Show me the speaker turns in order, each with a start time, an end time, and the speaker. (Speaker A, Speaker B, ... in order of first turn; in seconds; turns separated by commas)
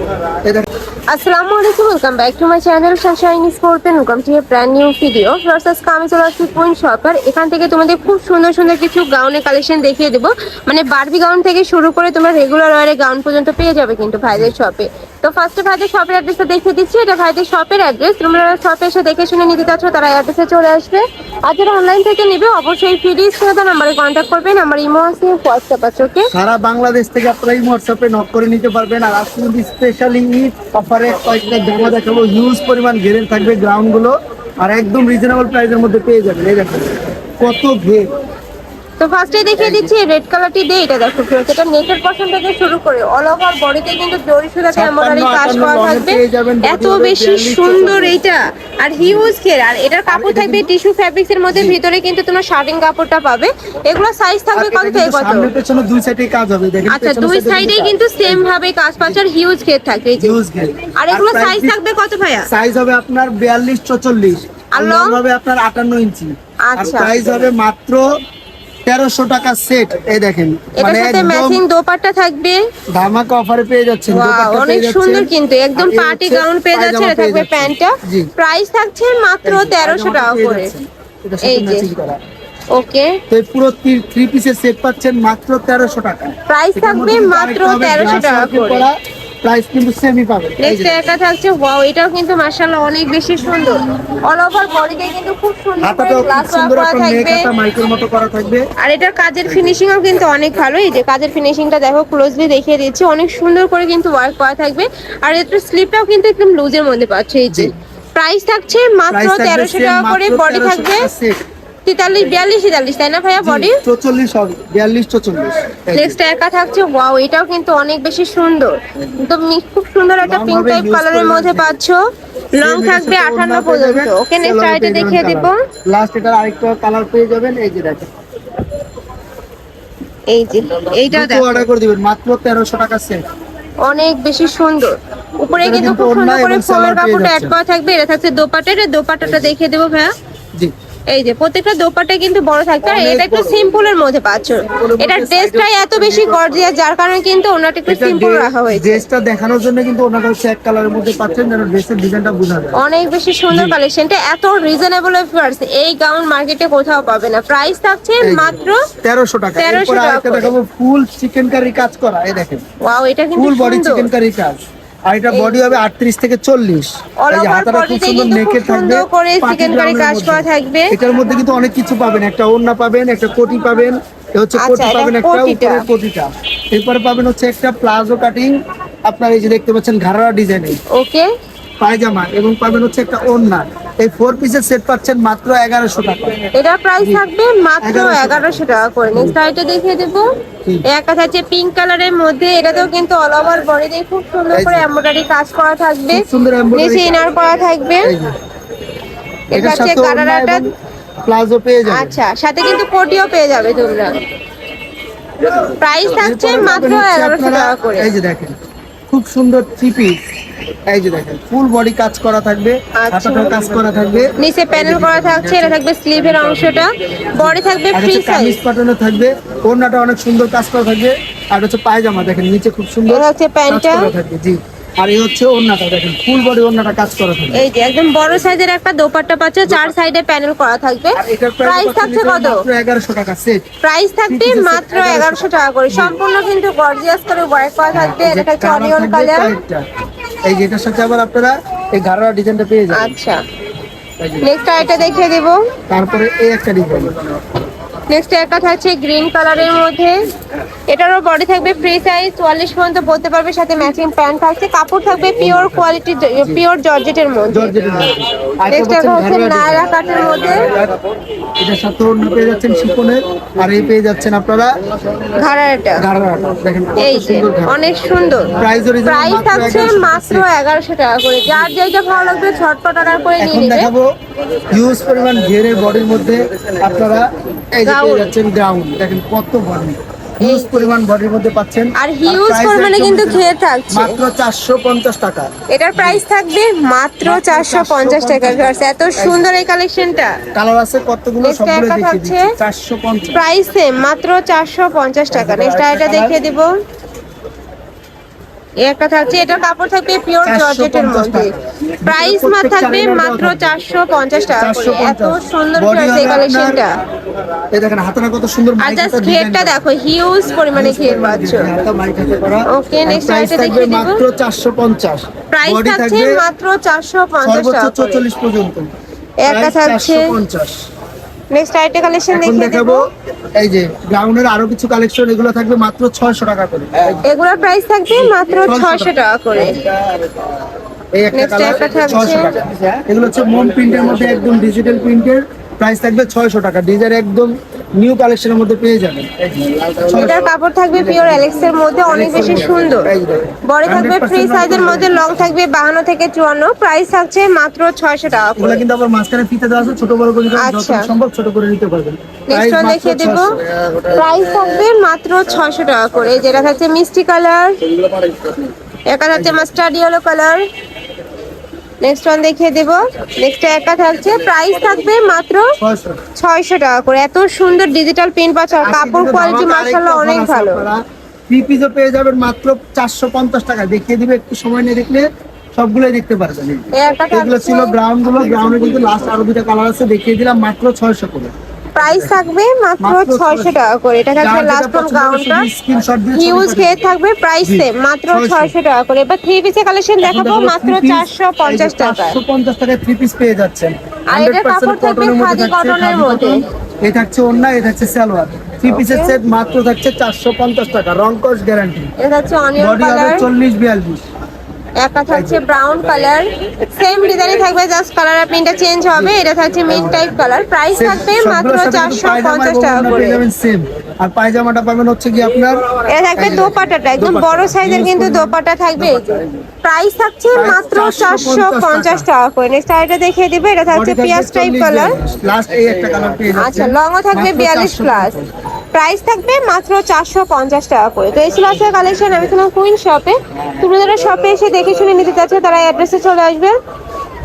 Speaker A: 1.1-26.3, Speaker B: 26.3-38.1, Speaker A: 39.0-55.5, Speaker B: 39.6-39.9, Speaker B: 44.7-48.2, Speaker B: 50.1-50.7, Speaker B: 51.5-51.8, Speaker B: 54.5-58.5, Speaker A: 56.9-60.4, Speaker B: 60.2-61.8, Speaker A: 61.0-62.5, Speaker B: 62.5-68.1, Speaker A: 64.7-65.2, Speaker A: 66.7-67.1, Speaker B: 68.9-71.6, Speaker A: 70.8-72.6, Speaker B: 72.9-78.3, Speaker A: 74.1-80.7, Speaker B: 79.5-82.2, Speaker A: 81.4-81.9, Speaker A: 82.7-83.2, Speaker B: 83.3-91.0, Speaker A: 86.5-88.9, Speaker A: 90.6-97.5, Speaker B: 95.8-98.7, Speaker A: 98.8-111.1, Speaker B: 109.1-111.4, Speaker A: 111.9-113.8, Speaker B: 113.4-116.2, Speaker A: 115.9-122.0, Speaker B: 120.2-121.8, Speaker A: 122.5-125.6, Speaker B: 122.6-128.1, Speaker A: 130.3-131.7, Speaker B: 130.9-133.2, Speaker A: 133.8-140.1, Speaker B: 135.6-137.6, Speaker A: 141.1-149.0, Speaker B: 142.8-143.7, Speaker B: 144.7-146.7, Speaker B: 147.9-152.8, Speaker A: 152.8-158.9, Speaker B: 153.5-153.8, Speaker B: 158.2-162.6, Speaker A: 159.6-160.5, Speaker A: 162.8-164.1, Speaker B: 163.4-164.6, Speaker B: 165.1-180.8, Speaker A: 165.3-165.7, Speaker A: 167.2-171.0, Speaker A: 174.6-175.8, Speaker A: 180.9-181.3, Speaker B: 181.8-186.4, Speaker A: 186.5-190.3, Speaker B: 187.0-187.2, Speaker B: 187.8-189.4, Speaker A: 190.9-198.2, Speaker B: 194.5-194.9, Speaker B: 196.1-197.2, Speaker B: 198.0-198.3, Speaker A: 199.5-200.7, Speaker B: 199.5-200.7, Speaker B: 201.2-202.2, Speaker A: 201.9-204.2, Speaker A: 205.6-208.1, Speaker B: 206.1-208.6, Speaker B: 209.1-210.2, Speaker B: 210.9-227.7, Speaker A: 213.0-213.6, Speaker A: 214.4-218.6, Speaker A: 223.1-224.1, Speaker A: 227.5-232.6, Speaker B: 229.7-229.9, Speaker B: 231.2-233.6, Speaker A: 233.8-239.6, Speaker B: 234.3-236.2, Speaker B: 237.9-239.8, Speaker B: 240.4-243.1, Speaker A: 242.9-243.4, Speaker B: 244.2-245.2, Speaker A: 244.4-245.6, Speaker B: 245.9-247.2, Speaker A: 248.1-250.2, Speaker A: 250.9-257.8, Speaker B: 255.4-255.9, Speaker B: 257.5-261.0, Speaker A: 258.7-260.7, Speaker B: 261.6-264.7, Speaker A: 265.3-266.0, Speaker B: 266.0-267.8, Speaker A: 267.0-273.9, Speaker B: 268.5-270.5, Speaker B: 273.4-274.1, Speaker B: 274.7-286.2, Speaker A: 277.9-278.3, Speaker A: 280.4-281.0, Speaker A: 282.0-284.2, Speaker A: 285.7-290.4, Speaker B: 287.2-289.4, Speaker B: 290.5-293.4, Speaker A: 291.4-292.5, Speaker A: 293.3-296.7, Speaker B: 295.3-296.4, Speaker A: 298.8-301.5, Speaker B: 300.4-303.8, Speaker A: 302.1-306.9, Speaker B: 304.6-306.9, Speaker B: 307.7-309.8, Speaker A: 308.8-311.7, Speaker B: 310.7-316.4, Speaker A: 312.7-314.2, Speaker A: 315.5-318.2, Speaker B: 317.4-318.9, Speaker A: 319.4-320.3, Speaker B: 319.5-320.8, Speaker A: 321.5-323.0, Speaker B: 322.3-323.0, Speaker B: 323.6-327.2, Speaker A: 327.2-329.9, Speaker B: 328.1-329.2, Speaker B: 331.2-340.4, Speaker A: 331.3-332.5, Speaker A: 340.1-343.1, Speaker B: 341.0-341.5, Speaker B: 342.1-345.5, Speaker A: 343.6-348.8, Speaker B: 348.6-353.6, Speaker A: 350.6-351.1, Speaker A: 352.5-357.9, Speaker A: 359.1-360.6, Speaker B: 359.3-359.8, Speaker A: 362.0-365.7, Speaker B: 365.8-366.2, Speaker A: 366.4-370.9, Speaker B: 368.8-382.4, Speaker A: 376.9-378.0, Speaker A: 382.0-385.7, Speaker B: 383.0-383.8, Speaker B: 384.4-387.0, Speaker A: 386.3-392.4, Speaker B: 387.6-388.7, Speaker B: 390.2-402.1, Speaker A: 394.3-396.6, Speaker A: 398.9-399.4, Speaker A: 402.2-403.5, Speaker B: 402.8-404.2, Speaker A: 405.0-413.4, Speaker B: 405.3-405.6, Speaker B: 409.9-410.3, Speaker B: 410.9-419.5, Speaker A: 416.0-425.1, Speaker B: 420.6-422.3, Speaker B: 423.9-428.5, Speaker A: 426.6-428.3, Speaker A: 428.9-436.8